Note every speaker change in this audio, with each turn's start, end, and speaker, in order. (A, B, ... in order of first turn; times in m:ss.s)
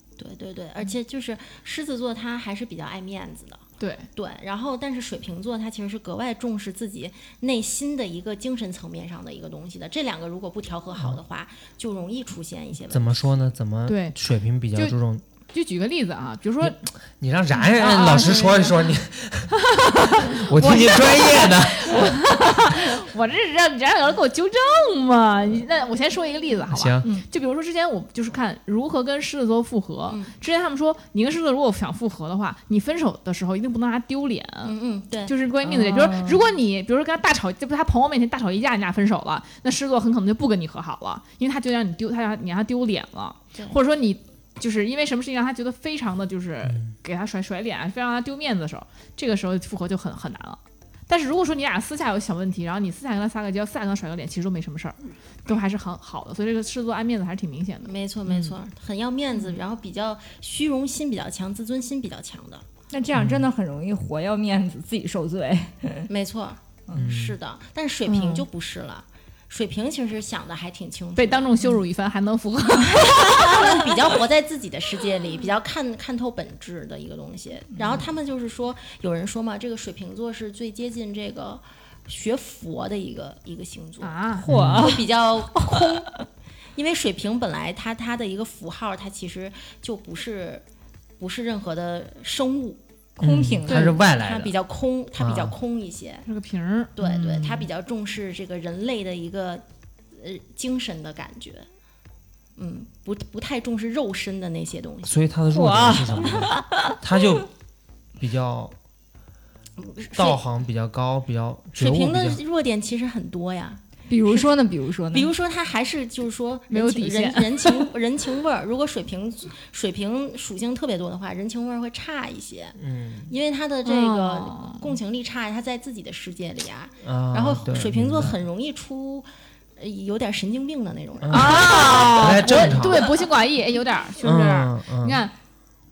0:00.2-0:03.6 A
0:03.8-0:04.1 B
0:04.2-0:13.3 A
0:12.9-0:15.2 C
0:13.8-0:14.2 B
0:15.5-0:16.8 B
0:16.6-0:19.6 C
0:17.6-0:18.8 B
0:19.7-0:34.7 B
0:20.1-0:22.1 C
0:26.7-0:27.1 C
0:34.6-0:35.3 A
0:35.2-0:57.9 B
0:35.6-0:36.4 D
0:46.7-0:46.9 C
0:57.8-1:02.6 A
1:02.9-1:06.1 D
1:03.1-1:03.5 C
1:06.1-1:11.5 A
1:06.9-1:07.4 C
1:08.1-1:08.4 B
1:11.2-1:13.8 B
1:13.3-1:24.2 A
1:17.8-1:18.1 D
1:24.0-1:24.5 B
1:24.4-1:24.9 C
1:24.4-1:26.0 D
1:24.8-1:26.1 A
1:26.8-1:30.6 A
1:31.2-1:32.8 A
1:33.2-1:34.0 D
1:33.2-1:34.5 C
1:33.7-1:36.2 A
1:35.2-1:35.5 C
1:36.2-1:37.7 B
1:37.0-1:41.7 A
1:42.6-1:45.2 A
1:45.0-1:47.5 C
1:45.5-1:47.0 D
1:48.2-1:48.7 C
1:49.8-1:50.4 A
1:50.1-1:52.4 C
1:51.8-1:54.5 A
1:54.1-1:55.3 D
1:55.1-2:02.8 A
1:56.7-1:57.9 B
2:02.8-2:03.3 C
2:03.3-2:12.9 A
2:03.8-2:05.0 B
2:07.0-2:08.4 C
2:11.2-2:13.1 C
2:11.3-2:15.3 B
2:14.2-2:15.2 C